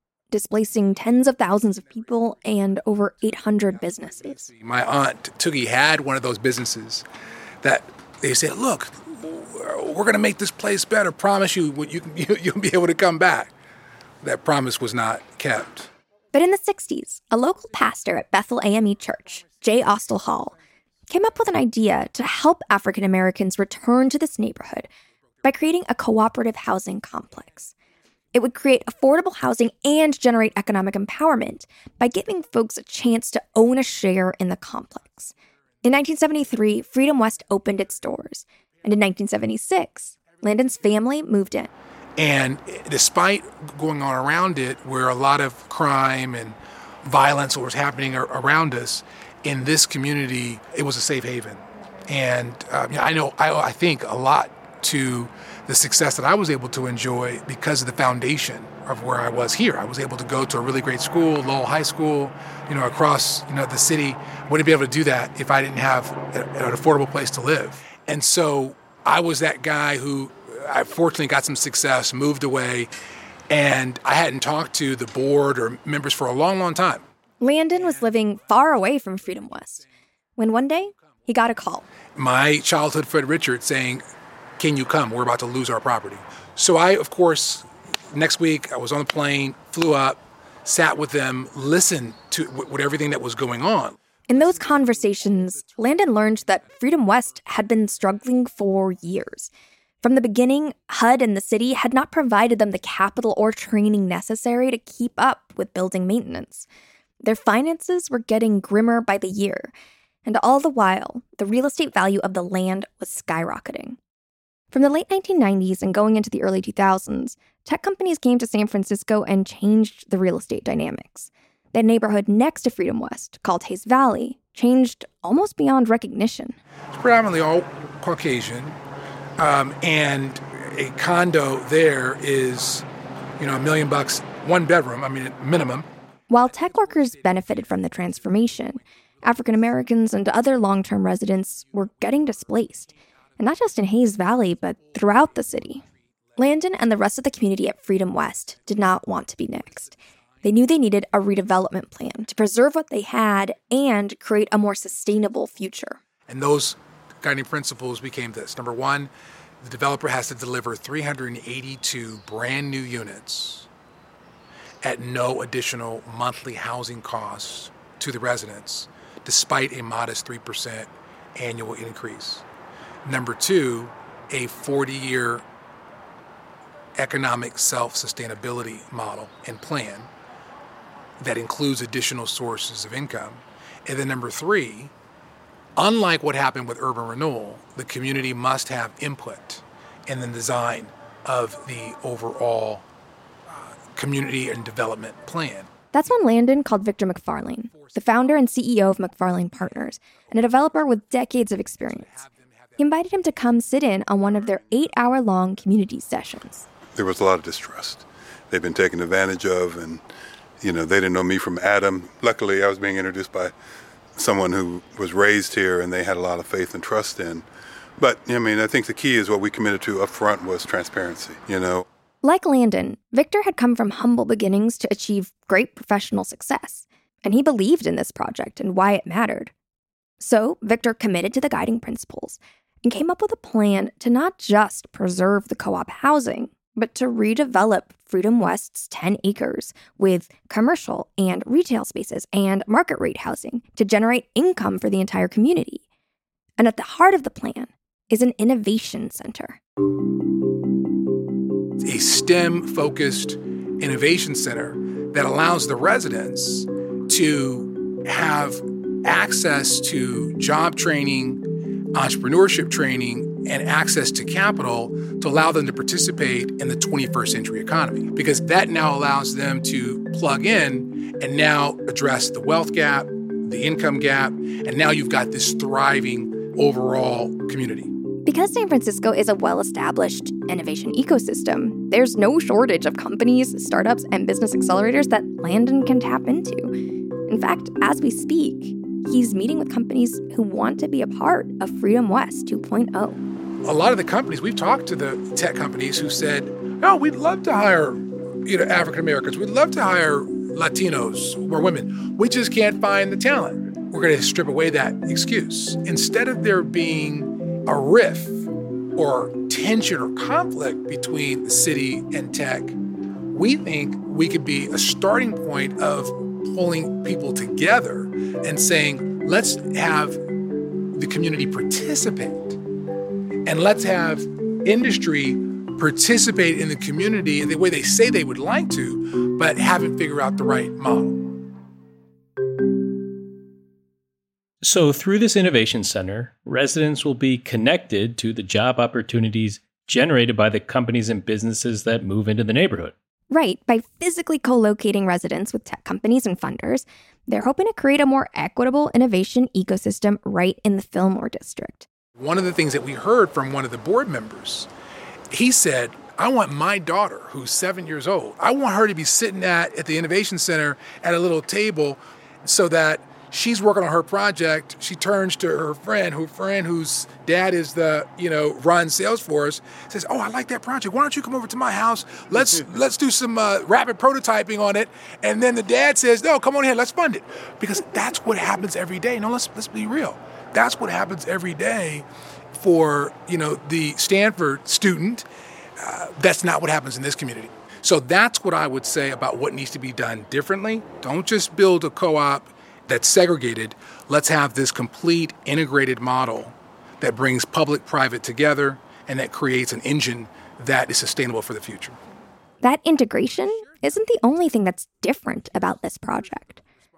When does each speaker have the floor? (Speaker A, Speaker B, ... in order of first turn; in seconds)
Speaker A: 0.3-4.5, 16.3-20.5, 21.1-24.9, 25.4-27.7, 28.3-41.7, 77.4-79.8, 80.4-81.8, 94.3-99.5, 100.0-106.7, 107.2-109.7, 110.2-114.0, 114.7-126.6, 136.3-145.8, 146.4-156.0, 195.9-206.7, 222.2-229.5, 230.2-245.8, 246.6-249.6, 278.2-286.7, 287.3-293.2, 343.3-351.9, 402.6-406.6
Speaker B: 4.5-7.0, 7.6-13.5, 14.2-15.9, 42.2-72.9, 73.5-77.0, 82.1-84.0, 84.6-94.0, 126.9-128.8, 129.4-135.9, 156.3-163.7, 164.8-172.4, 173.0-175.4, 176.9-180.1, 181.2-184.9, 185.8-192.8, 193.5-195.7, 197.7-198.6, 201.8-203.0, 251.8-277.9, 293.6-308.4, 308.9-312.8, 313.3-320.2, 320.9-322.6, 323.4-331.4, 352.1-354.7, 355.3-385.3, 385.8-402.0
Speaker C: 206.9-210.0, 210.6-213.5, 214.2-217.5, 218.0-221.8
Speaker D: 334.6-342.9